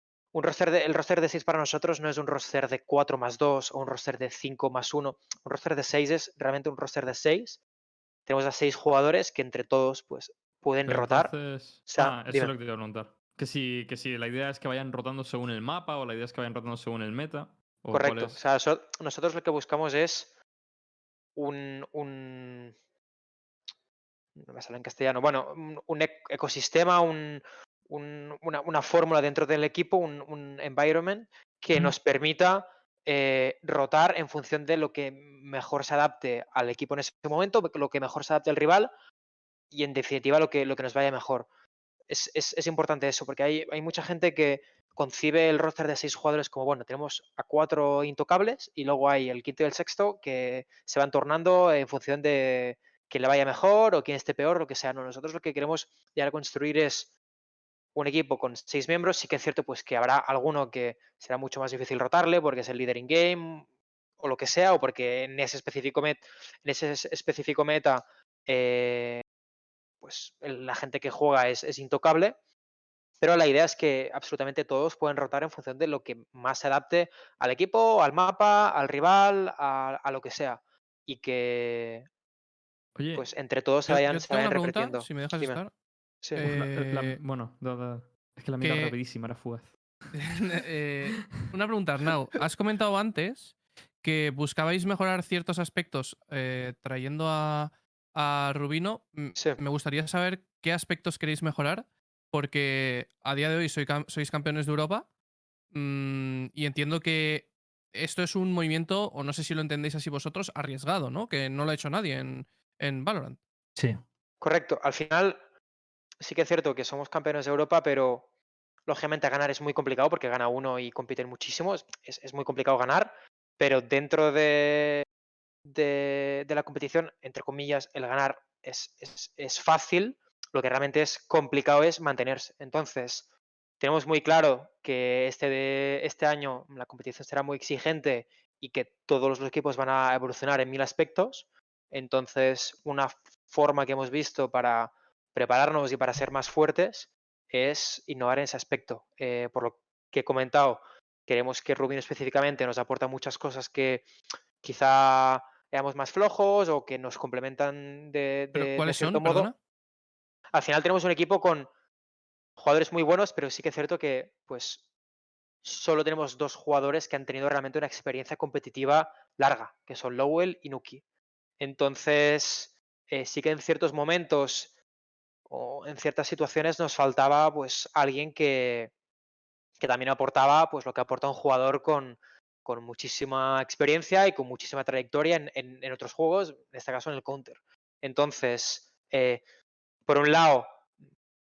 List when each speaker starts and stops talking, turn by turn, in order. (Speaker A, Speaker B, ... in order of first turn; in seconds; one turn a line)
Speaker A: 0.3-7.6
Speaker A: 8.3-11.3
Speaker B: 10.8-18.4
Speaker A: 11.9-12.5
Speaker A: 17.9-20.3
Speaker A: 21.4-22.7
Speaker A: 24.4-38.9
Speaker A: 39.7-41.5
Speaker A: 42.1-57.1
Speaker A: 57.9-63.6
Speaker A: 64.2-69.2
Speaker A: 70.0-72.3
Speaker A: 73.2-82.1
Speaker B: 83.0-83.2
Speaker A: 83.1-85.6
Speaker C: 83.9-85.7
Speaker C: 86.3-87.2
Speaker B: 86.4-90.1
Speaker C: 88.6-88.9
Speaker C: 90.1-105.1
Speaker C: 105.7-113.4
Speaker A: 114.4-115.4
Speaker A: 116.2-118.2
Speaker A: 118.9-125.0
Speaker A: 125.6-133.2
Speaker A: 133.8-154.1
Speaker A: 154.6-159.5
Speaker C: 158.5-159.5
Speaker A: 160.5-161.7
Speaker A: 162.6-164.8
Speaker A: 165.6-171.0
Speaker A: 171.6-174.7
Speaker A: 175.5-178.9
Speaker A: 179.8-189.4
Speaker A: 190.1-190.7